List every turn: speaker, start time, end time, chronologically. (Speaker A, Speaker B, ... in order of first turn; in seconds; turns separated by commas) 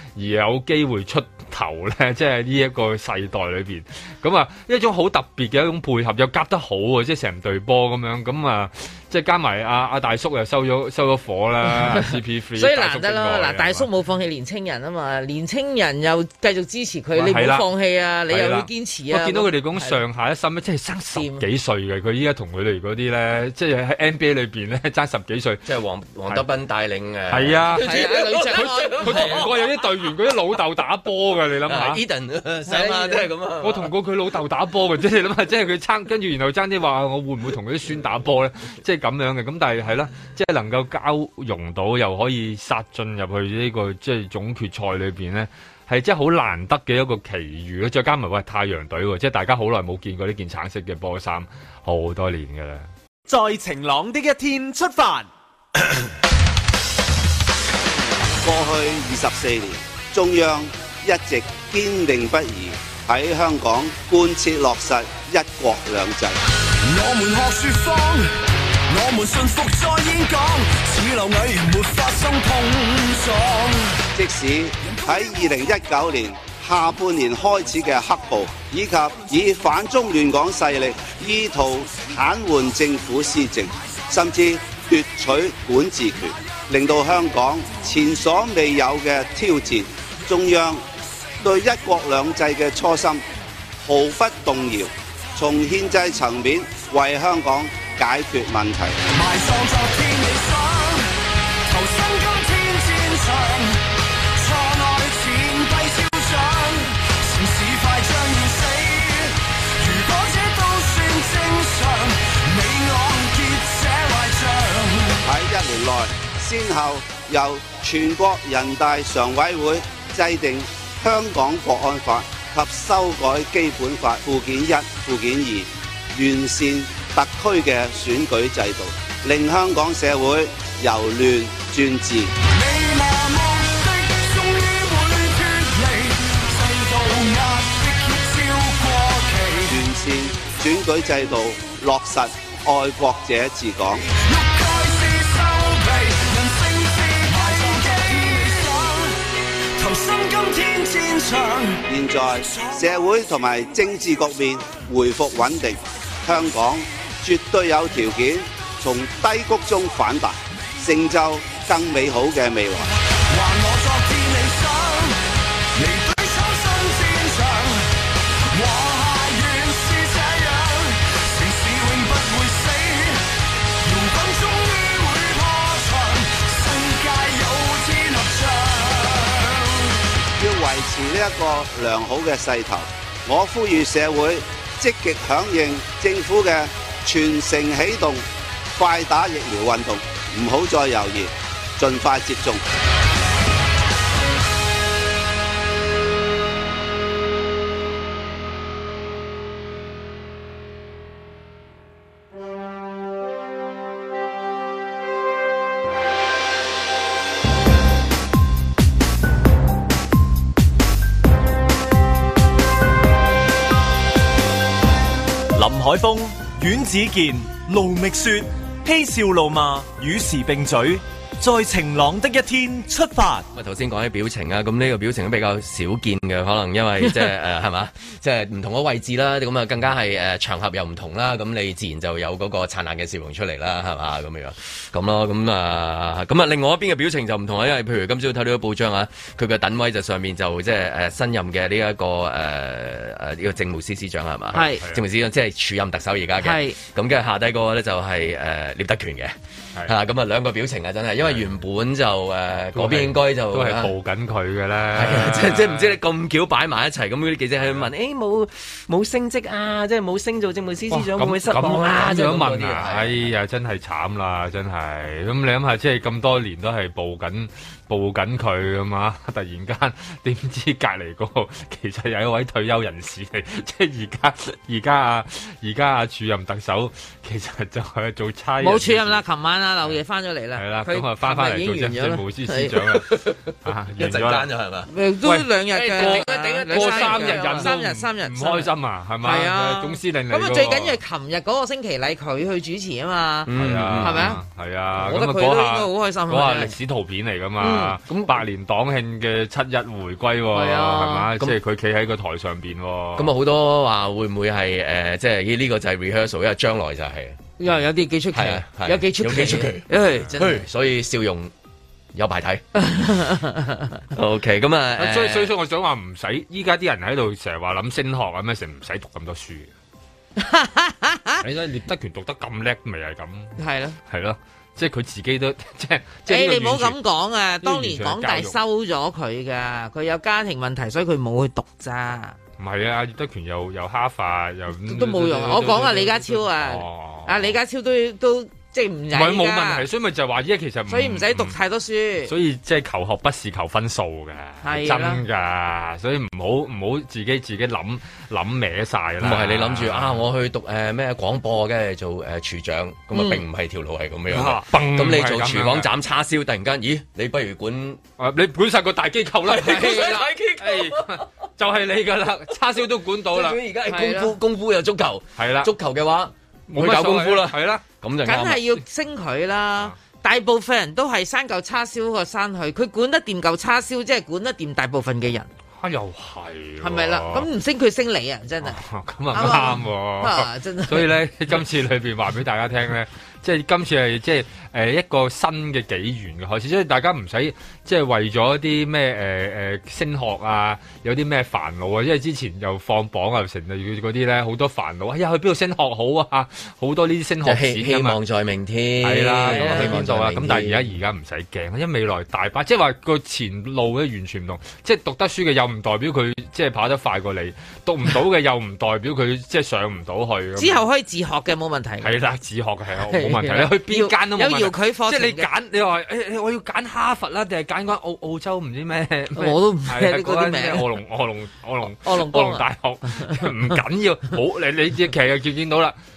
Speaker A: 0.2-13.9, Speaker B: 11.9-20.0, Speaker A: 17.1-17.7, Speaker A: 18.3-25.6, Speaker B: 21.1-21.4, Speaker C: 25.7-29.7, Speaker A: 27.3-32.0, Speaker B: 27.8-29.4, Speaker C: 31.7-33.9, Speaker B: 32.7-33.3, Speaker A: 33.6-52.9, Speaker D: 53.3-55.2, Speaker E: 54.6-55.0, Speaker F: 58.4-66.4, Speaker G: 66.8-68.3, Speaker G: 68.9-74.0, Speaker F: 74.2-90.8, Speaker F: 91.4-93.2, Speaker F: 93.9-99.0, Speaker G: 99.1-101.1, Speaker G: 101.7-103.8, Speaker G: 104.3-115.2, Speaker F: 115.2-132.3, Speaker G: 132.5-139.8, Speaker F: 139.7-144.1, Speaker G: 144.2-149.2, Speaker G: 149.8-151.8, Speaker F: 151.9-162.9, Speaker G: 163.3-165.2, Speaker G: 165.8-167.9, Speaker G: 168.5-173.2, Speaker G: 173.8-179.9, Speaker F: 180.4-192.6, Speaker E: 215.5-223.5, Speaker C: 223.5-253.9, Speaker B: 244.5-244.8, Speaker A: 244.6-245.0, Speaker B: 246.4-246.8, Speaker A: 252.8-256.0, Speaker C: 254.9-263.3, Speaker A: 257.6-257.9, Speaker A: 260.9-279.2, Speaker B: 278.6-282.7, Speaker A: 280.6-284.5, Speaker C: 283.1-283.4, Speaker C: 283.9-284.9, Speaker B: 284.9-288.7, Speaker A: 285.2-291.0, Speaker C: 285.7-287.7, Speaker B: 289.2-294.4, Speaker C: 293.5-294.4, Speaker A: 293.6-303.3, Speaker B: 295.0-296.7, Speaker B: 297.6-297.9, Speaker C: 298.1-298.4, Speaker B: 300.5-301.3, Speaker C: 303.2-307.4, Speaker B: 307.6-310.6, Speaker C: 308.3-311.5, Speaker C: 312.1-312.7, Speaker B: 312.8-313.9, Speaker C: 314.1-315.5, Speaker A: 315.0-319.7, Speaker B: 320.4-321.4, Speaker A: 321.4-327.0, Speaker B: 323.6-324.0, Speaker B: 326.3-332.4, Speaker A: 327.6-328.6, Speaker A: 332.6-337.6, Speaker B: 334.9-339.9, Speaker A: 339.1-341.6, Speaker B: 340.9-342.3, Speaker A: 342.2-350.2, Speaker B: 344.6-345.2, Speaker C: 349.2-358.0, Speaker B: 353.1-353.4, Speaker A: 354.3-355.9, Speaker A: 358.2-363.6, Speaker C: 359.4-361.3, Speaker B: 359.6-360.2, Speaker C: 363.3-368.6, Speaker B: 363.9-364.3, Speaker A: 365.4-365.7, Speaker A: 366.7-367.8, Speaker B: 368.2-375.5, Speaker A: 375.8-377.5, Speaker B: 376.8-381.1, Speaker A: 378.6-398.2, Speaker C: 397.4-400.9, Speaker A: 399.0-410.9, Speaker B: 399.6-400.0, Speaker B: 410.6-412.1, Speaker A: 412.0-425.9, Speaker B: 413.1-415.5, Speaker B: 419.4-420.9, Speaker B: 422.0-423.5